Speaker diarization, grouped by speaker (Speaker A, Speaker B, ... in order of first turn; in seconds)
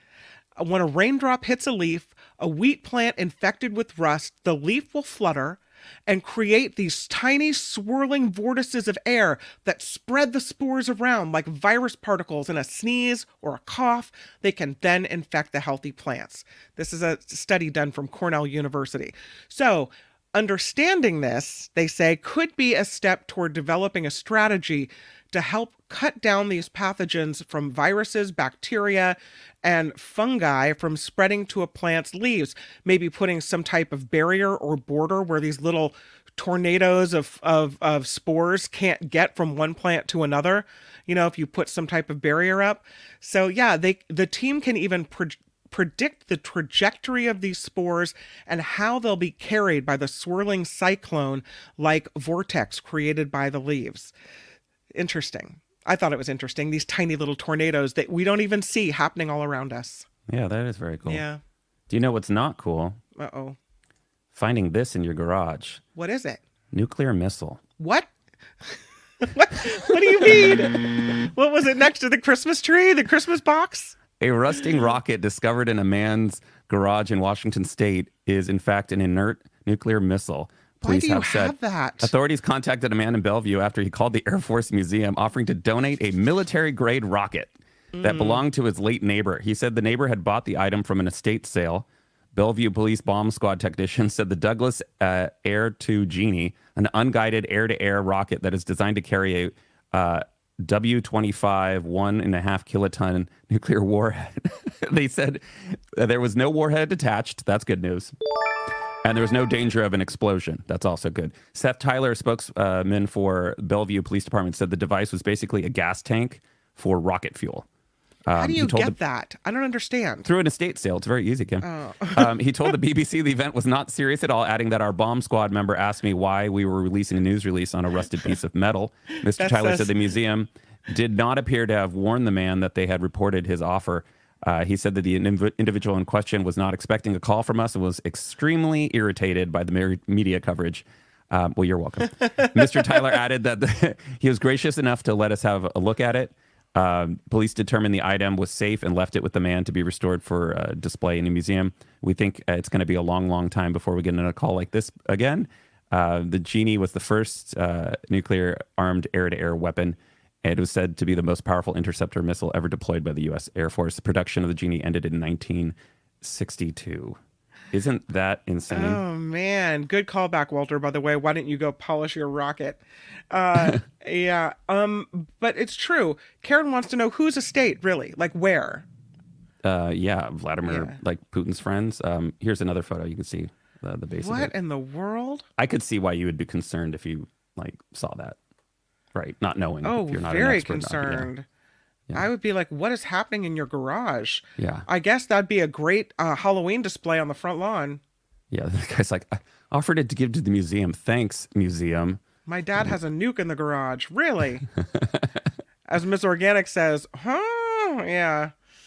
Speaker A: 0.6-54.1, 55.0-60.1, 61.1-61.4, 63.2-63.6, 66.0-66.4, 67.8-68.1, 68.7-74.0, 80.8-82.1, 87.9-88.4, 118.4-120.3, 121.6-122.3, 129.4-130.0, 168.7-178.8, 180.7-181.0, 184.2-185.4, 189.8-191.5, 192.1-198.0, 202.5-204.7, 205.9-208.5
Speaker B: 60.3-61.2, 61.9-63.0, 64.3-65.8, 66.7-67.6, 74.2-108.2, 109.0-117.7, 118.3-119.0, 120.2-167.2, 167.7-169.0, 173.6-173.8, 179.6-184.5, 185.6-188.4, 189.2-191.3, 194.6-194.9, 198.5-202.2, 204.8-205.4